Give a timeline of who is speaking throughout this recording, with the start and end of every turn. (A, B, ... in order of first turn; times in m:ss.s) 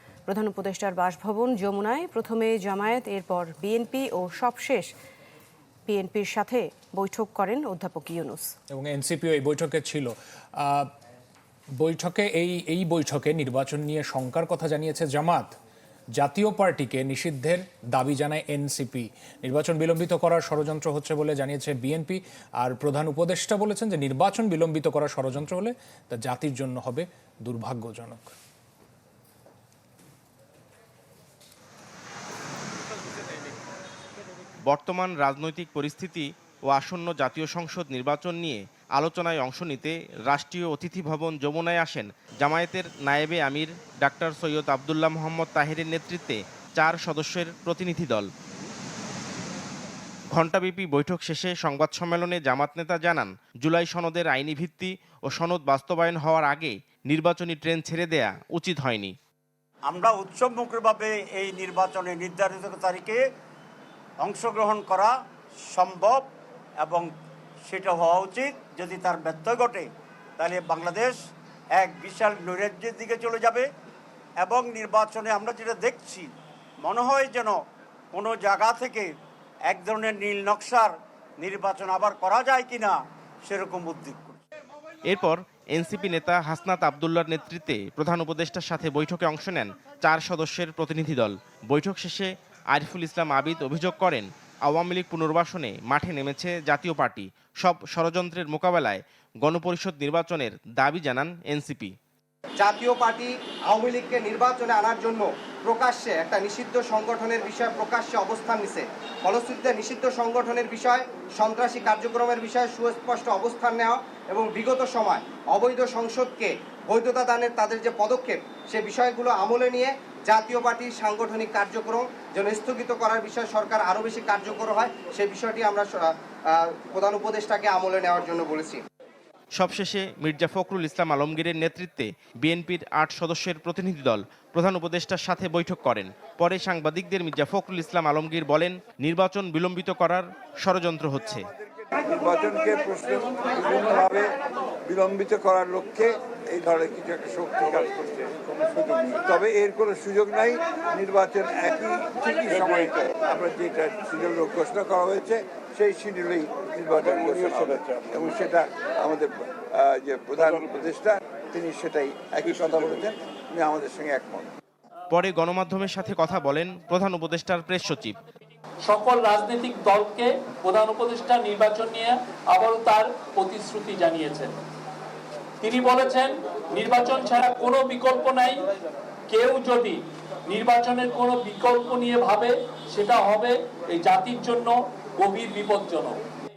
0:00.3-0:04.9 A
0:05.8-0:08.5 A
0:08.7-0:10.9 B
0:11.8-0:15.5 B
0:16.2-0:28.3 B
0:34.6-0:48.3 C
0:50.3-0:59.1 C
0:59.9-1:03.2 D
1:04.2-1:05.1 D
1:05.7-1:06.2 D
1:07.7-1:09.8 D
1:10.4-1:11.2 D
1:11.8-1:13.6 D
1:14.4-1:16.3 D
1:16.8-1:17.6 D
1:18.2-1:19.1 D
1:19.7-1:20.9 D
1:21.4-1:22.9 D
1:23.5-1:24.4 D
1:25.1-1:41.9 C
1:42.6-2:08.8 E
2:09.6-2:21.4 C
2:22.0-2:24.3 F
2:24.9-2:44.5 F
2:45.1-2:48.2 C
2:48.8-2:54.6 G
2:55.6-2:58.6 G
2:59.3-3:06.2 G